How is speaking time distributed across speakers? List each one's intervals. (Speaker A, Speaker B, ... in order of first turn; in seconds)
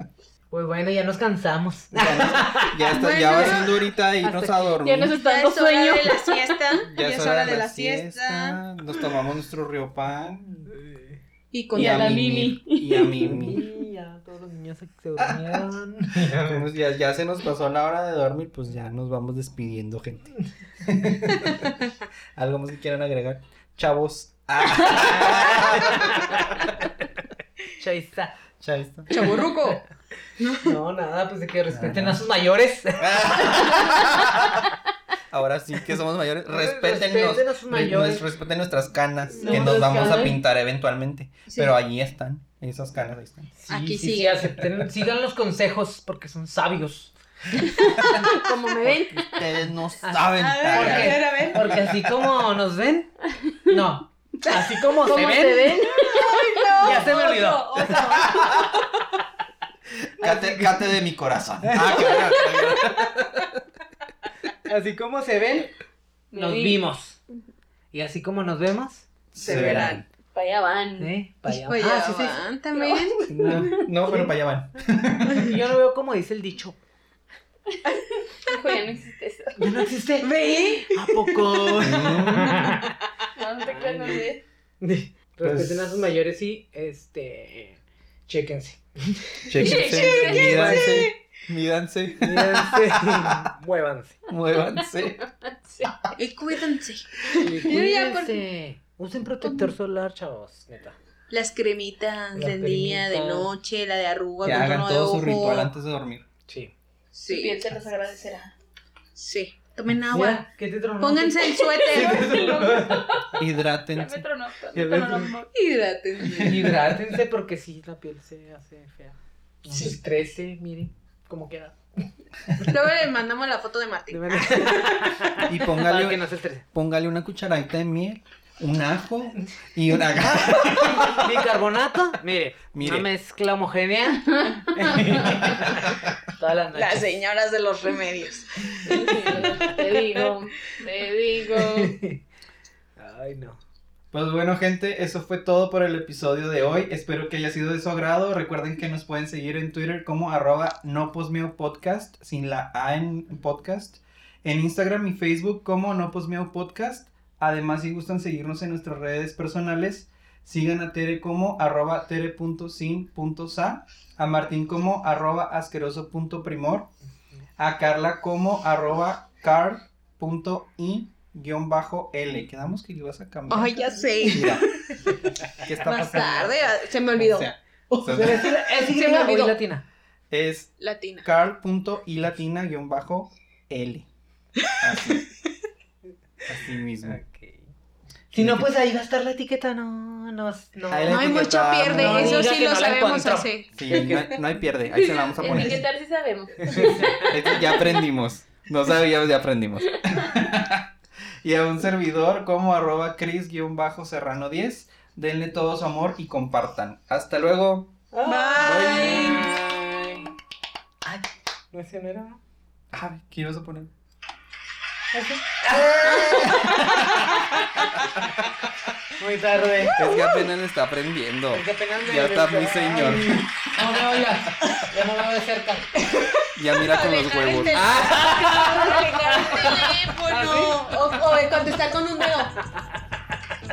Speaker A: 0.5-3.4, 4.2-4.8, 10.8-11.0, 13.2-16.7, 24.9-26.9, 27.8-28.4, 30.6-33.8, 36.5-38.3, 39.4-40.2, 43.6-48.4, 50.0-53.1, 53.7-55.9, 56.8-58.0, 60.2-60.9, 61.6-62.4, 64.7-65.7, 66.3-67.2, 67.9-69.9, 71.0-72.4, 73.5-73.9, 75.3-76.8, 79.6-80.3, 80.9-82.9, 83.6-89.6, 92.2-94.2, 97.4-101.0, 102.3-103.5, 106.5-106.7, 110.1-113.3, 114.7-115.4, 116.4-122.1, 124.1-126.7, 130.2-137.1, 141.5-142.2, 143.0-143.6, 177.9-179.9, 187.0-187.7, 188.3-191.3, 191.8-194.3, 196.6-197.3, 208.1-210.3, 211.0-212.4, 215.1-218.2, 219.2-220.0, 221.5-226.5, 227.7-231.8, 232.7-232.9
Speaker B: 1.9-5.2, 6.9-10.7, 11.7-13.7, 15.2-15.6, 16.2-21.7, 22.4-26.5, 28.6-29.1, 31.7-32.2, 33.0-34.6, 35.3-43.5, 48.9-52.2, 57.9-58.7, 60.2-63.6, 69.3-70.0, 73.3-75.6, 81.8-82.6, 85.4-86.1, 89.5-93.5, 94.3-95.2, 104.4-106.3, 113.4-114.3, 125.4-131.4, 132.7-133.1, 135.4-136.1, 139.3-139.6, 144.1-166.9, 167.6-174.7, 175.5-178.6, 180.3-184.1, 184.7-185.3, 186.5-187.2, 188.4-188.7, 190.9-192.5, 193.8-195.9, 196.8-200.9, 201.4-208.0, 208.6-209.5, 212.9-213.9, 216.6-217.2, 220.0-223.8, 226.6-227.9
Speaker C: 2.9-3.9, 5.1-8.6, 11.5-12.5, 29.1-29.9, 30.4-30.8, 39.5-39.7, 43.7-44.5, 50.4-51.7, 55.9-58.8, 69.4-70.0, 71.5-73.3, 80.2-82.7, 89.7-91.1, 96.2-98.4, 101.3-105.7, 107.2-107.6, 109.2-110.5, 111.0-112.3, 115.5-116.8, 122.6-124.9, 136.7-140.4, 173.5-179.6, 180.8-181.3, 184.7-185.0, 191.1-194.2, 195.4-195.8, 208.2-209.6, 216.2-217.2, 226.8-232.5
Speaker D: 4.8-6.7, 11.7-13.3, 39.3-40.4, 47.6-49.5, 55.0-56.8, 66.3-66.8, 70.3-71.1, 72.8-73.9, 78.4-79.7, 83.4-84.4, 89.6-91.0, 94.8-96.0, 107.3-108.5, 111.7-115.5, 134.4-135.1, 138.8-142.0, 194.9-198.0